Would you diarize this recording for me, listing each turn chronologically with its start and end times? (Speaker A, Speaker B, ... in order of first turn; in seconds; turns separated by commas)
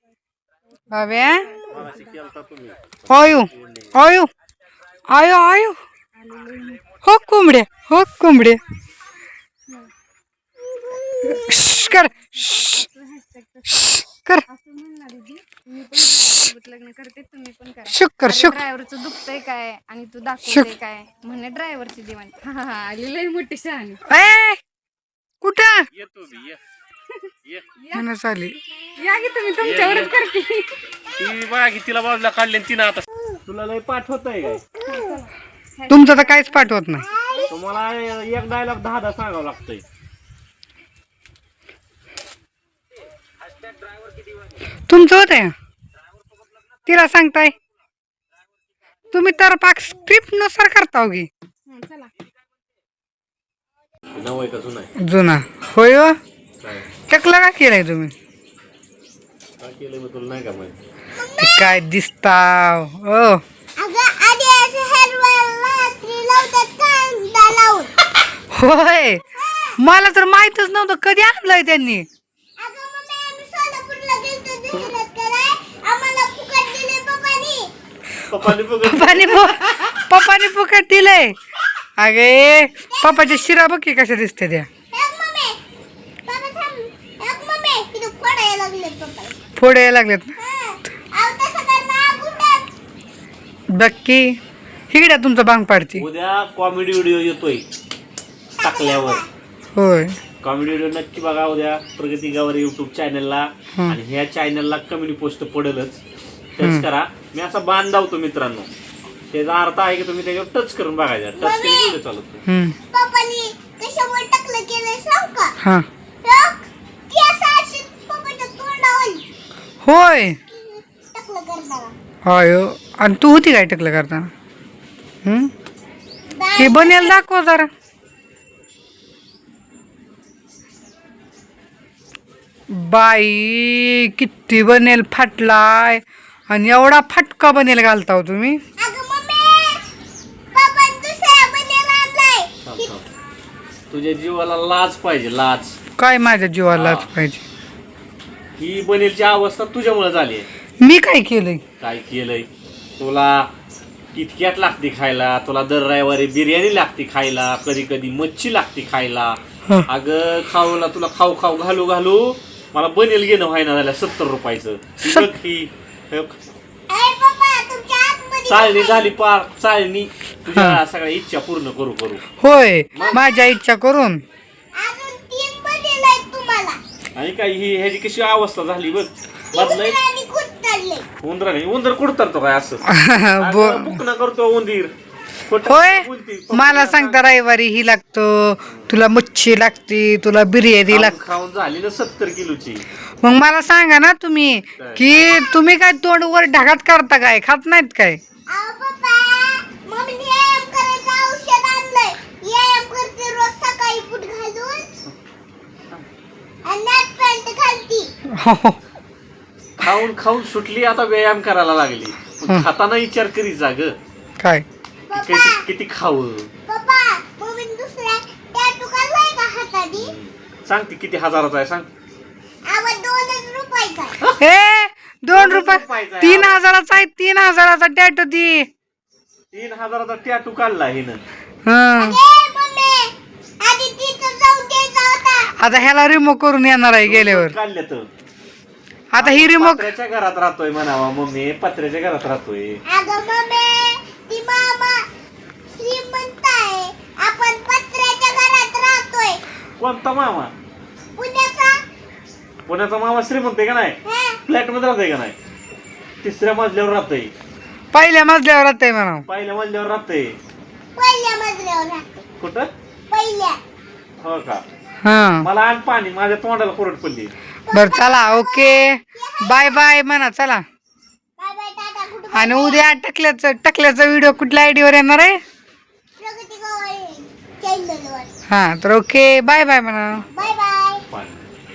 Speaker A: 0.8-1.8, Speaker B: 0.9-1.5, Speaker C: 1.7-3.9, Speaker B: 3.1-4.3, Speaker B: 5.1-5.8, Speaker A: 6.2-7.0, Speaker B: 7.0-8.6, Speaker D: 10.9-11.5, Speaker B: 11.3-12.8, Speaker A: 11.6-24.0, Speaker B: 13.8-14.4, Speaker B: 17.9-18.6, Speaker B: 24.1-24.6, Speaker B: 25.4-25.9, Speaker C: 26.0-26.6, Speaker A: 27.8-28.1, Speaker B: 27.9-28.6, Speaker A: 28.9-30.8, Speaker C: 29.6-30.1, Speaker C: 31.1-34.6, Speaker D: 34.8-35.1, Speaker A: 34.9-36.5, Speaker B: 35.9-37.0, Speaker D: 37.0-37.5, Speaker C: 37.5-39.8, Speaker B: 44.9-45.5, Speaker B: 46.9-47.5, Speaker B: 49.1-51.3, Speaker A: 51.7-52.1, Speaker C: 54.1-54.9, Speaker B: 55.0-56.2, Speaker C: 56.6-56.9, Speaker B: 57.1-58.1, Speaker C: 59.6-60.8, Speaker D: 61.1-61.8, Speaker B: 61.4-63.4, Speaker D: 63.8-67.9, Speaker B: 68.5-69.2, Speaker D: 69.4-69.8, Speaker B: 69.8-72.1, Speaker D: 72.6-77.7, Speaker C: 78.3-79.8, Speaker B: 78.9-81.3, Speaker B: 82.0-84.7, Speaker D: 82.9-83.5, Speaker D: 84.9-85.6, Speaker D: 86.3-89.4, Speaker B: 89.6-90.3, Speaker D: 90.4-92.7, Speaker B: 93.7-94.4, Speaker B: 94.9-96.0, Speaker C: 96.0-97.7, Speaker D: 98.6-99.3, Speaker C: 98.6-99.2, Speaker B: 99.8-100.2, Speaker C: 100.4-106.0, Speaker C: 106.6-108.7, Speaker C: 109.3-112.4, Speaker D: 111.4-112.0, Speaker B: 112.5-112.8, Speaker D: 112.9-115.5, Speaker D: 116.2-119.2, Speaker B: 119.8-120.4, Speaker D: 120.5-121.9, Speaker B: 122.2-124.3, Speaker B: 125.2-125.5, Speaker D: 126.3-127.2, Speaker B: 126.6-127.7, Speaker B: 132.7-138.6, Speaker D: 138.8-139.8, Speaker D: 140.5-142.9, Speaker C: 142.7-143.1, Speaker C: 143.9-145.8, Speaker B: 146.0-147.4, Speaker C: 146.7-147.1, Speaker C: 148.6-150.5, Speaker B: 150.8-151.6, Speaker C: 151.8-152.5, Speaker C: 153.0-153.5, Speaker C: 154.1-166.4, Speaker D: 166.9-169.1, Speaker C: 168.5-172.2, Speaker B: 170.5-170.8, Speaker B: 172.4-174.2, Speaker C: 172.9-173.2, Speaker D: 174.8-176.8, Speaker C: 177.2-180.0, Speaker D: 179.5-181.1, Speaker C: 181.2-182.8, Speaker B: 182.9-184.0, Speaker C: 183.4-184.9, Speaker C: 185.5-187.2, Speaker B: 185.7-191.1, Speaker C: 188.7-188.9, Speaker C: 190.9-192.8, Speaker B: 193.2-198.2, Speaker C: 194.8-195.1, Speaker D: 198.5-204.9, Speaker D: 206.7-208.1, Speaker B: 208.4-208.8, Speaker C: 209.8-214.0, Speaker B: 214.4-214.7, Speaker D: 215.1-215.7, Speaker C: 215.1-216.5, Speaker D: 216.7-220.1, Speaker C: 219.9-221.9, Speaker D: 222.7-224.2, Speaker B: 224.4-228.7, Speaker C: 225.3-226.6, Speaker C: 229.5-231.2, Speaker B: 231.7-232.2, Speaker D: 232.0-235.5, Speaker B: 235.6-237.6, Speaker C: 237.0-238.1, Speaker B: 239.1-239.9, Speaker C: 239.2-242.8, Speaker D: 242.9-245.1, Speaker D: 245.7-249.4, Speaker C: 249.8-250.5, Speaker D: 251.2-251.8, Speaker C: 252.7-255.3, Speaker D: 254.1-254.4, Speaker C: 256.2-257.3, Speaker B: 257.9-259.2, Speaker C: 259.3-260.4, Speaker D: 260.9-262.2, Speaker C: 262.4-262.7, Speaker D: 263.1-263.6, Speaker C: 264.2-264.6, Speaker B: 265.0-265.5, Speaker C: 265.4-267.3, Speaker D: 267.7-269.9, Speaker B: 267.7-270.6, Speaker D: 271.4-272.8, Speaker B: 272.3-275.4, Speaker D: 276.2-278.3, Speaker B: 278.5-280.2, Speaker D: 280.3-281.0, Speaker C: 281.1-281.5